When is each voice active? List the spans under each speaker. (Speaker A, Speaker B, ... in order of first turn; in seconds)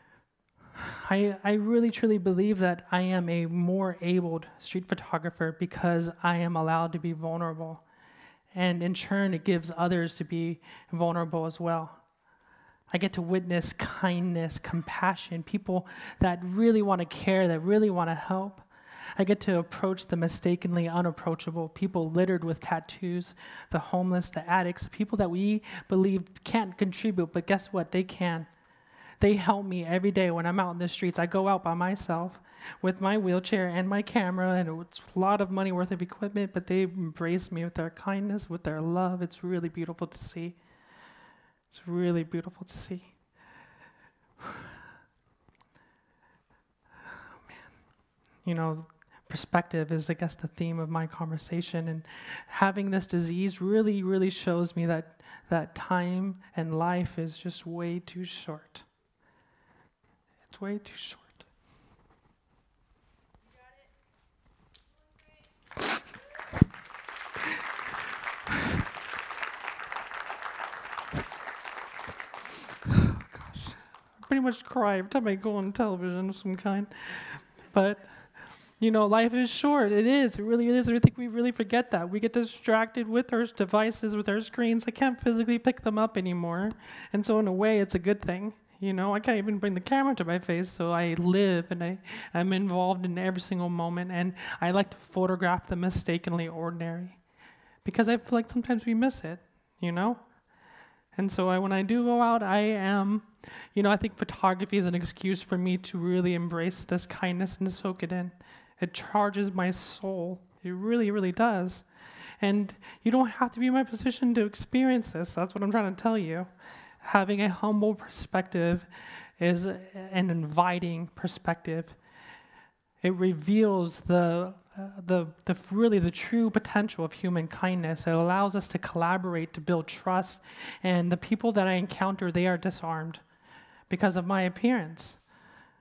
Speaker A: 0.7-7.8, 8.5-12.0, 12.9-28.5, 29.2-40.6, 41.7-43.1, 44.4-44.7, 48.4-58.9, 60.4-61.5, 72.8-97.2, 97.8-100.2, 101.1-116.5, 117.0-122.0, 123.0-133.2, 133.9-135.2